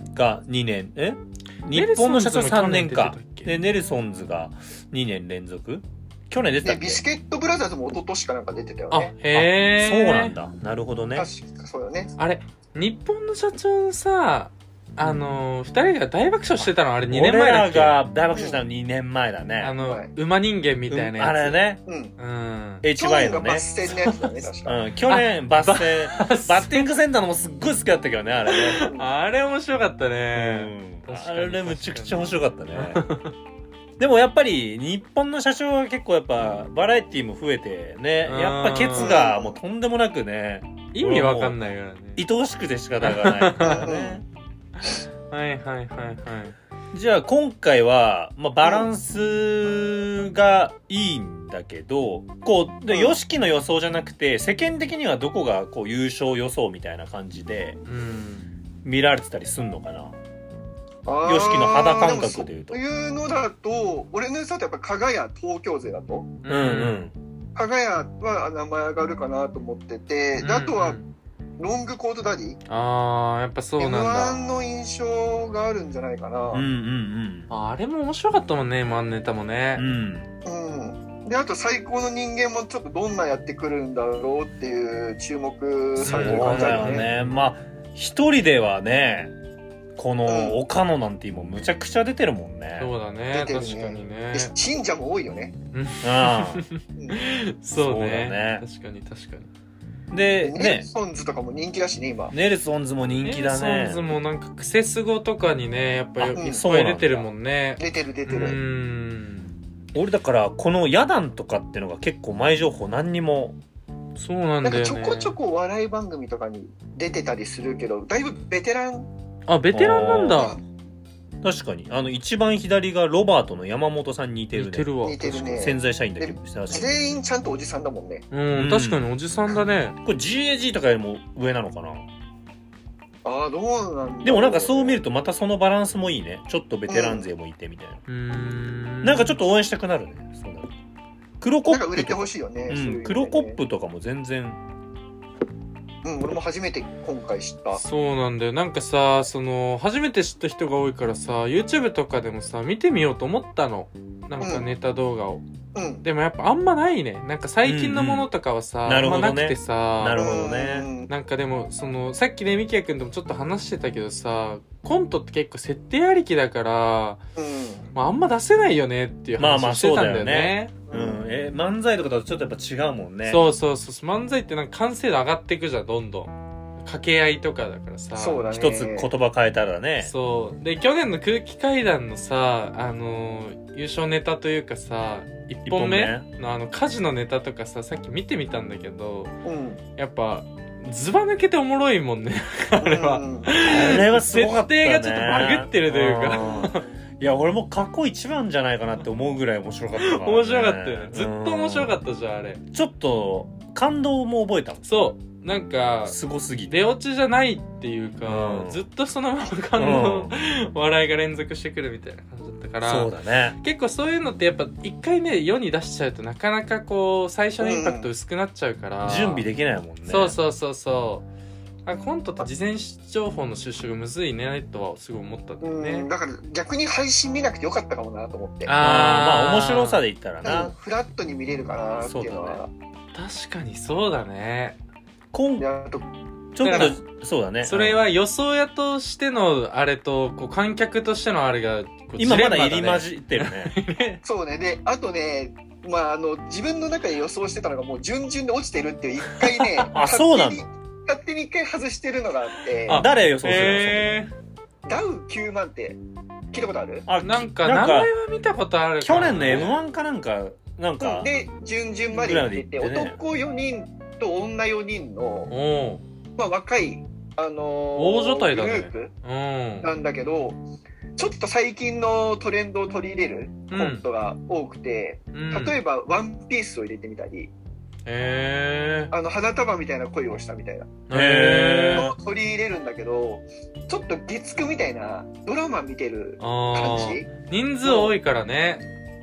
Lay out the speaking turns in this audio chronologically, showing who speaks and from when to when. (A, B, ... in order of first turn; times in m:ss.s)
0:00.1-0:07.0 A
0:01.7-0:03.5 B
0:06.6-0:09.1 C
0:08.9-0:10.3 B
0:09.3-0:11.3 A
0:11.1-0:12.1 C
0:12.2-0:18.0 B
0:17.1-0:19.8 A
0:18.3-0:18.6 C
0:19.6-0:21.6 B
0:19.8-0:20.1 C
0:20.9-0:21.8 A
0:21.9-0:22.1 C
0:22.2-0:22.8 B
0:22.8-0:23.7 A
0:23.0-0:24.8 C
0:24.6-0:28.8 A
0:25.1-0:26.9 B
0:28.5-0:33.3 B
0:30.3-0:33.1 A
0:34.0-0:41.6 A
0:38.2-0:39.2 B
0:38.9-0:39.6 C
0:40.9-0:42.2 B
0:42.2-0:44.2 A
0:43.0-0:43.9 B
0:43.6-0:44.2 C
0:45.3-0:46.6 B
0:46.9-0:57.8 A
0:48.6-0:48.9 C
0:57.8-0:58.5 B
0:58.8-1:00.1 A
1:01.0-1:06.3 C
1:01.2-1:02.8 A
1:06.4-1:07.1 B
1:06.5-1:07.1 A
1:07.5-1:11.0 C
1:10.4-1:11.1 B
1:11.6-1:12.6 C
1:12.7-1:14.4 B
1:13.8-1:16.6 C
1:16.5-1:17.5 A
1:17.5-1:19.8 B
1:19.8-1:20.3 A
1:20.4-1:27.0 C
1:26.0-1:29.3 A
1:26.0-1:27.4 B
1:30.0-1:32.9 A
1:30.2-1:30.6 C
1:32.8-1:34.5 B
1:33.3-1:35.5 C
1:35.7-1:39.5 B
1:36.0-1:36.6 A
1:37.0-1:37.2 C
1:37.7-1:38.6 A
1:40.1-1:40.9 A
1:40.4-1:42.3 C
1:42.3-1:44.0 A
1:43.2-1:49.5 B
1:46.2-1:47.3 A
1:46.4-1:46.6 C
1:47.8-1:48.6 C
1:49.9-1:53.6 A
1:54.2-1:55.4 B
1:54.6-1:59.1 C
1:59.5-2:00.6 B
1:59.7-2:00.5 A
2:01.4-2:07.0 A
2:04.5-2:05.2 B
2:05.0-2:08.2 C
2:08.3-2:10.0 B
2:08.5-2:09.0 A
2:10.0-2:12.1 A
2:13.2-2:15.0 C
2:14.2-2:18.0 A
2:16.9-2:17.3 C
2:18.1-2:19.4 B
2:19.0-2:20.7 A
2:21.4-2:24.6 A
2:21.7-2:23.6 C
2:26.0-2:27.8 C
2:27.7-2:35.4 B
2:34.4-2:34.6 C
2:35.7-2:36.0 C
2:36.0-2:40.2 B
2:37.6-2:38.3 A
2:38.8-2:40.9 A
2:40.1-2:41.1 C
2:41.1-2:47.2 B
2:47.4-2:47.8 C
2:47.9-2:50.7 B
2:49.4-2:53.4 A
2:50.9-2:51.2 C
2:53.2-2:56.3 B
2:56.8-2:58.4 B
2:58.2-2:59.1 C
2:58.5-3:00.1 A
3:00.0-3:09.3 B
3:05.6-3:06.2 A
3:09.4-3:09.8 C
3:10.0-3:16.8 B
3:12.8-3:13.7 C
3:13.6-3:22.0 A
3:16.3-3:16.8 C
3:20.0-3:22.6 B
3:22.7-3:25.0 A
3:24.8-3:26.2 B
3:26.1-3:26.8 A
3:26.7-3:39.4 B
3:28.2-3:28.8 A
3:29.8-3:30.3 A
3:32.8-3:33.6 A
3:37.6-3:38.1 C
3:39.0-3:40.4 A
3:40.0-3:41.2 B
3:41.8-3:46.1 B
3:45.6-3:48.7 C
3:48.6-3:50.0 B
3:48.8-3:50.7 A
3:50.4-3:52.7 C
3:52.0-3:52.6 A
3:53.1-3:54.8 B
3:55.3-3:55.6 A
3:55.6-3:56.0 C
3:56.5-3:58.0 A
3:56.6-3:57.0 B
3:57.6-4:04.2 B
4:02.2-4:03.7 A
4:04.2-4:13.0 C
4:09.4-4:09.9 B
4:09.9-4:10.6 A
4:12.9-4:14.3 B
4:12.9-4:14.2 A
4:14.8-4:16.0 C
4:16.5-4:17.1 C
4:17.1-4:18.1 A
4:17.2-4:19.8 B
4:19.0-4:21.3 A
4:21.0-4:25.5 C
4:22.1-4:23.2 A
4:25.5-4:26.0 B
4:26.4-4:29.1 C
4:28.0-4:29.9 B
4:29.8-4:30.6 C
4:31.2-4:37.5 C
4:33.7-4:34.0 B
4:35.3-4:35.8 B
4:38.0-4:39.1 B
4:39.1-4:41.0 C
4:41.1-4:42.1 B
4:41.1-4:42.1 A
4:41.9-4:47.3 C
4:46.4-4:48.8 B
4:47.8-4:48.1 C